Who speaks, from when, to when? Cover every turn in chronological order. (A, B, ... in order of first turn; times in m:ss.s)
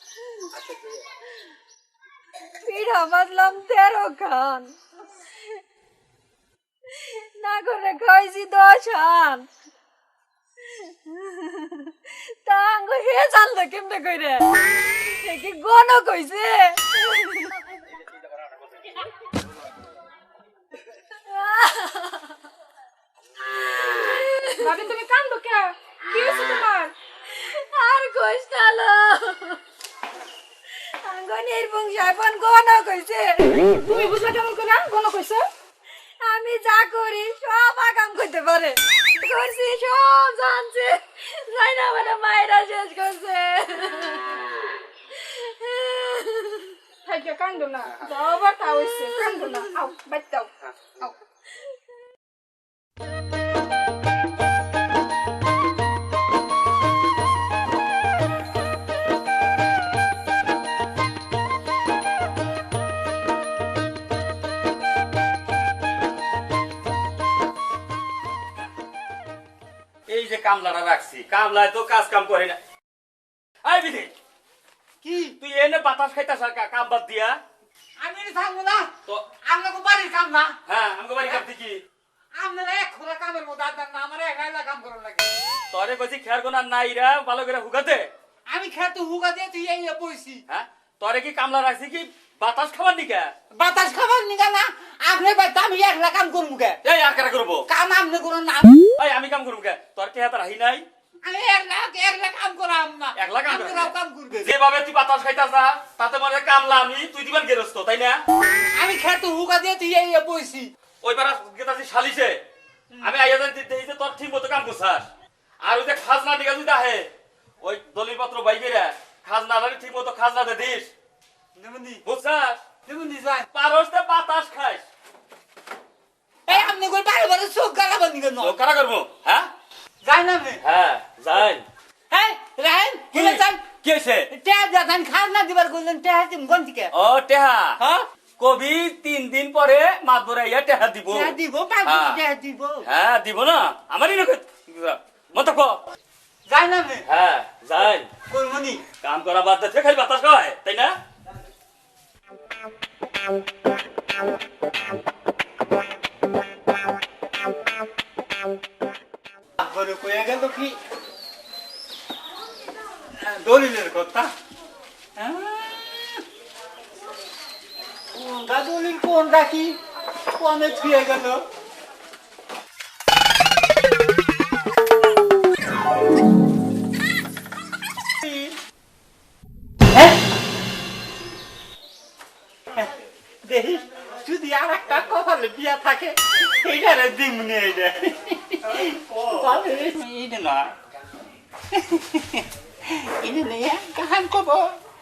0:02.6-0:04.7 A
0:06.9-0:09.5 A
0:10.8-0:17.6 A
0:21.3-0:22.3 A
0:23.9-0:24.8 A
0:24.6-0:26.9 B
0:27.3-0:29.6 A
0:31.0-0:33.7 A
0:33.8-0:35.4 B
0:36.2-0:44.4 A
0:45.1-0:46.8 A
0:47.0-0:51.1 B
0:48.2-0:49.6 A
1:10.1-1:12.6 C
1:13.6-1:14.1 C
1:15.0-1:15.4 D
1:15.4-1:17.4 C
1:18.0-1:18.9 D
1:19.4-1:20.5 D
1:20.6-1:21.8 C
1:22.4-1:25.3 D
1:25.7-1:28.1 C
1:28.5-1:30.4 D
1:30.5-1:33.3 C
1:33.5-1:36.8 D
1:36.8-1:37.6 C
1:37.7-1:38.9 D
1:39.0-1:40.8 C
1:41.2-1:44.5 D
1:43.1-1:48.2 C
1:48.7-1:50.7 D
1:51.0-1:52.4 C
1:53.0-1:55.1 C
1:55.6-1:57.0 C
1:57.6-2:00.9 C
2:01.6-2:02.0 D
2:02.0-2:02.6 C
2:02.8-2:03.5 D
2:03.5-2:04.8 C
2:06.5-2:08.6 D
2:08.4-2:09.5 C
2:10.0-2:10.6 D
2:10.6-2:11.6 C
2:12.1-2:13.7 D
2:13.1-2:14.3 C
2:14.3-2:16.9 D
2:16.9-2:17.8 C
2:18.4-2:22.2 C
2:21.1-2:22.9 D
2:22.8-2:25.8 C
2:26.5-2:27.0 D
2:27.0-2:28.1 C
2:28.3-2:28.8 D
2:29.0-2:31.0 C
2:39.6-2:40.8 D
2:43.2-2:44.3 D
2:45.2-2:46.2 D
2:48.1-2:49.8 D
2:50.3-2:51.4 D
2:58.2-2:58.6 D
3:03.4-3:10.7 D
3:11.7-3:14.8 D